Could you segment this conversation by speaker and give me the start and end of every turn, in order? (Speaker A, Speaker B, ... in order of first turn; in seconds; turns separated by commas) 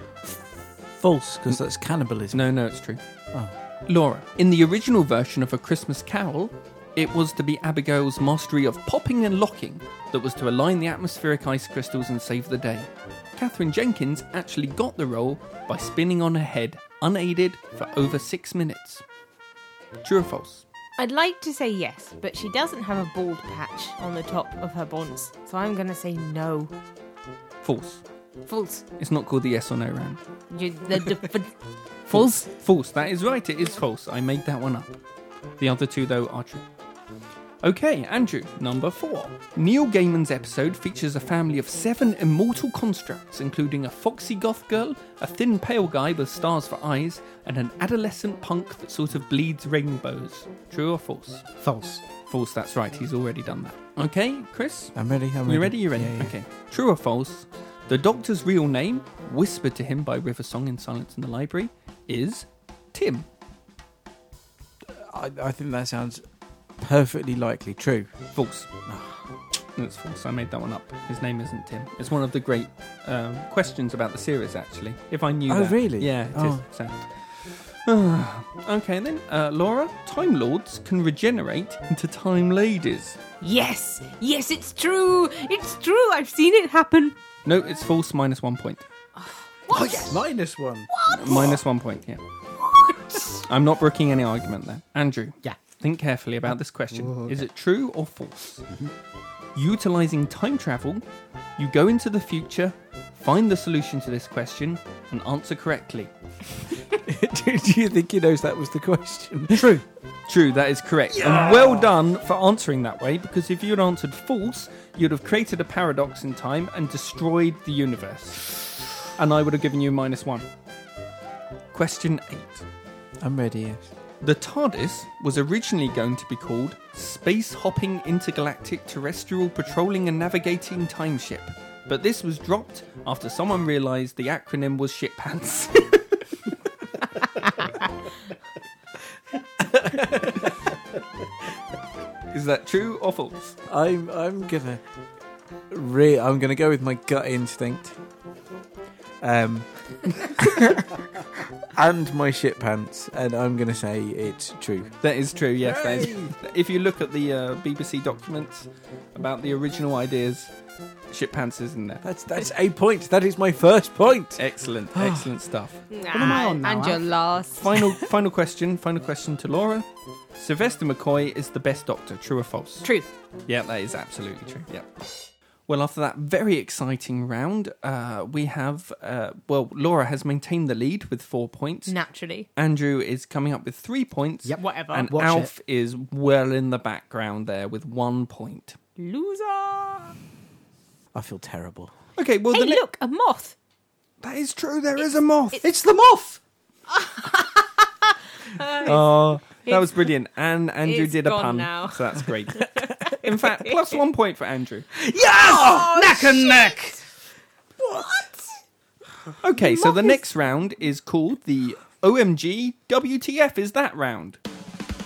Speaker A: 0.2-2.5, Speaker B: 2.3-3.0, Speaker B: 3.9-19.0, Speaker B: 20.0-20.6, Speaker C: 21.0-26.7, Speaker B: 27.6-28.0, Speaker C: 28.4-28.8, Speaker B: 29.0-30.2, Speaker C: 30.5-31.6, Speaker B: 32.1-35.0, Speaker B: 35.6-36.6, Speaker B: 37.6-51.5, Speaker D: 51.6-52.0, Speaker B: 52.2-63.3, Speaker A: 54.9-56.3, Speaker A: 64.9-66.2, Speaker A: 66.8-68.1, Speaker B: 68.3-68.7, Speaker A: 68.8-69.2, Speaker B: 69.8-83.2, Speaker A: 75.5-76.6, Speaker C: 83.4-87.2, Speaker B: 87.4-88.8, Speaker C: 89.2-90.2, Speaker A: 89.7-90.9, Speaker C: 90.9-91.5, Speaker B: 91.2-92.2, Speaker C: 92.8-93.2, Speaker B: 93.5-98.7, Speaker D: 96.9-97.5, Speaker B: 99.5-101.0, Speaker B: 101.6-106.1, Speaker A: 106.9-109.8, Speaker D: 109.5-109.8, Speaker B: 110.3-120.5, Speaker A: 111.1-111.9, Speaker B: 121.7-122.7, Speaker A: 123.2-123.9, Speaker B: 124.2-136.0, Speaker A: 139.7-140.5, Speaker B: 142.3-143.6, Speaker A: 143.7-144.8, Speaker A: 145.7-148.0, Speaker A: 149.2-150.8, Speaker A: 151.7-154.9, Speaker B: 155.0-160.5, Speaker A: 155.6-156.3, Speaker B: 161.1-162.0, Speaker A: 162.0-165.3, Speaker B: 164.4-165.8, Speaker C: 165.9-167.6, Speaker D: 166.1-167.1, Speaker B: 167.6-172.9, Speaker C: 172.8-173.1, Speaker B: 173.5-174.9, Speaker B: 175.7-181.9, Speaker C: 181.9-182.5, Speaker B: 182.6-188.8, Speaker D: 184.4-185.5, Speaker C: 184.6-184.9, Speaker C: 189.0-190.2, Speaker A: 191.1-191.9, Speaker B: 192.2-192.8, Speaker C: 192.5-193.5, Speaker B: 194.2-195.6, Speaker D: 195.6-196.4, Speaker C: 197.0-197.4, Speaker C: 198.6-198.9, Speaker B: 198.8-204.9, Speaker C: 199.6-200.1, Speaker C: 200.8-204.0, Speaker D: 205.1-206.9, Speaker A: 205.4-206.1, Speaker C: 205.4-206.9, Speaker C: 207.9-208.4, Speaker B: 209.4-214.4, Speaker C: 209.6-210.2